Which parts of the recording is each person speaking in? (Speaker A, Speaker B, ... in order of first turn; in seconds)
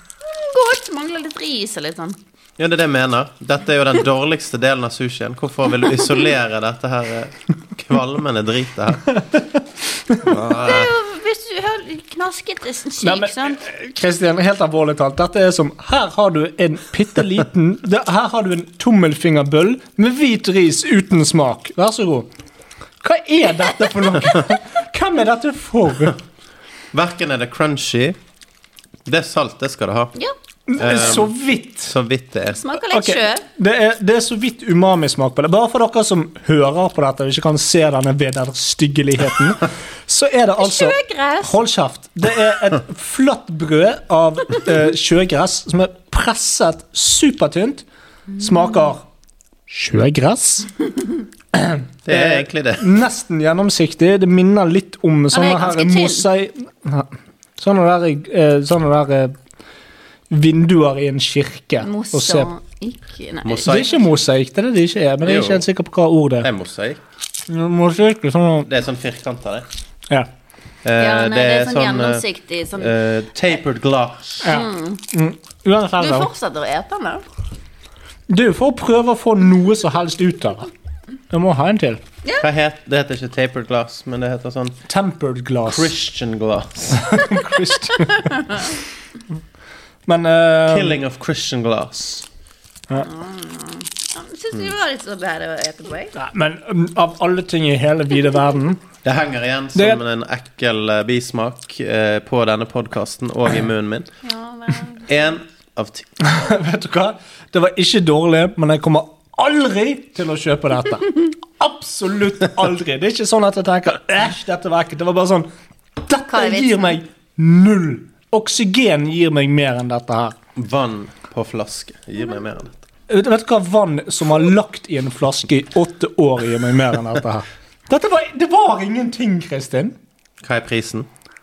Speaker A: 0.3-2.2, 10.5-13.6, 32.5-33.4, 40.6-41.5, 55.3-56.3, 61.8-63.9, 71.0-72.9, 74.5-75.0, 76.0-77.2, 82.2-82.5, 93.0-96.1, 104.2-105.2, 116.3-117.0
Speaker B: 2.6-9.2, 10.2-10.9, 26.9-28.2, 29.1-30.1, 30.8-31.3, 31.9-32.6, 52.0-52.8, 63.4-64.1, 65.2-65.6, 66.4-67.0, 68.7-69.7, 70.8-72.2, 72.8-74.4, 82.4-84.8, 85.7-87.3, 90.7-92.2, 99.0-104.1, 105.1-106.1, 120.5-122.7, 130.4-131.1
Speaker C: 13.0-22.3, 23.0-26.1, 30.7-31.9, 32.9-47.9, 48.4-49.0, 49.7-50.7, 51.5-59.3, 60.3-62.5, 63.6-66.5, 67.5-68.7, 74.4-76.3, 78.3-80.7, 81.3-82.0, 84.9-85.9, 87.0-88.2, 90.0-91.0, 96.1-98.8, 99.7-100.0, 106.2-120.3, 123.1-129.9